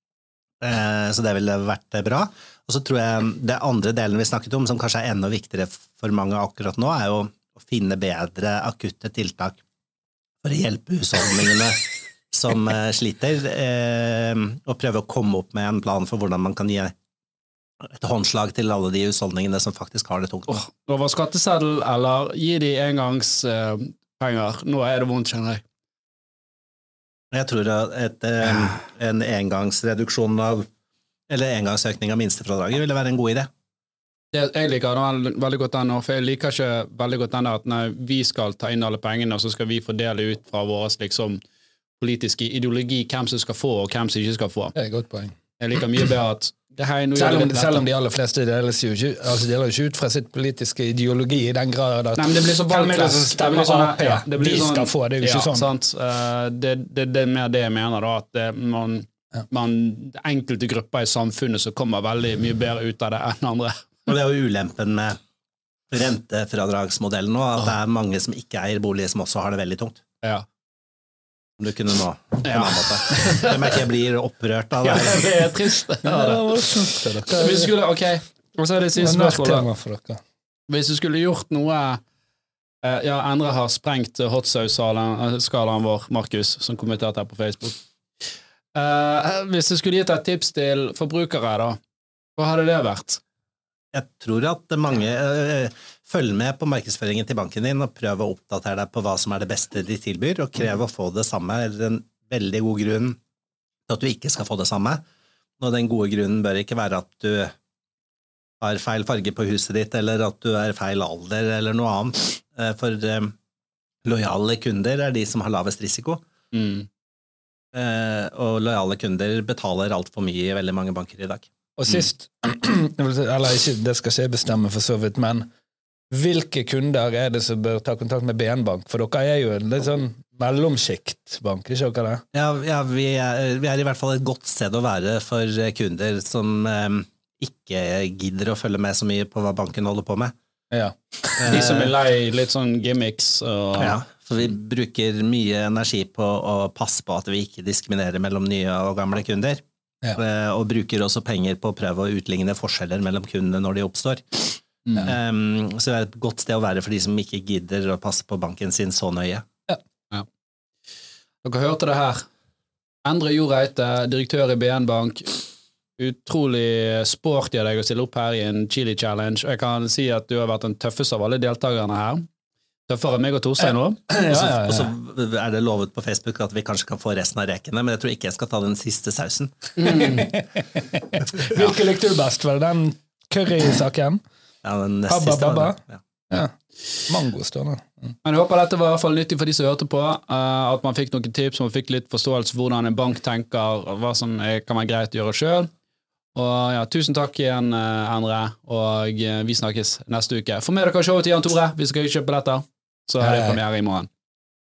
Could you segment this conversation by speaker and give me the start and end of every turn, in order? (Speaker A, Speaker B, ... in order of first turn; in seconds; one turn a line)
Speaker A: 0.6-9.6
Speaker A: 10.4-16.9
Speaker A: 17.8-20.6
Speaker B: 20.5-25.6
Speaker A: 27.3-30.7
Speaker A: 31.3-33.5
Speaker B: 34.3-41.4
Speaker B: 42.0-44.7
Speaker C: 44.7-45.3
Speaker B: 45.6-47.9
Speaker C: 47.1-55.7
Speaker B: 52.1-63.9
Speaker A: 64.1-65.2
Speaker A: 65.9-70.0
Speaker A: 71.6-75.3
Speaker B: 72.4-73.7
Speaker B: 74.8-79.7
Speaker C: 76.0-77.7
Speaker C: 79.0-80.2
Speaker B: 80.7-82.0
Speaker B: 82.8-87.8
Speaker B: 88.7-91.8
Speaker B: 92.4-93.2
Speaker A: 93.9-103.2
Speaker A: 103.9-105.0
Speaker A: 105.6-107.5
Speaker A: 108.6-113.3
Speaker A: 114.0-116.2
Speaker B: 116.5-116.9
Speaker A: 117.7-121.5
Speaker C: 121.8-125.5
Speaker C: 126.1-132.2
Speaker A: 132.3-140.3
Speaker C: 140.7-141.7
Speaker A: 141.4-141.9
Speaker B: 141.5-144.0
Speaker A: 143.8-149.6
Speaker A: 150.2-159.4
Speaker B: 154.9-155.1
Speaker B: 161.4-162.3
Speaker B: 163.0-172.2
Speaker B: 172.9-174.0
Speaker C: 174.1-174.9
Speaker A: 174.3-179.7
Speaker B: 179.8-180.3
Speaker C: 179.8-184.2
Speaker A: 181.3-181.7
Speaker A: 184.6-186.0
Speaker C: 185.1-188.2
Speaker B: 188.2-195.7
Speaker B: 196.3-204.1
Speaker C: 203.2-203.6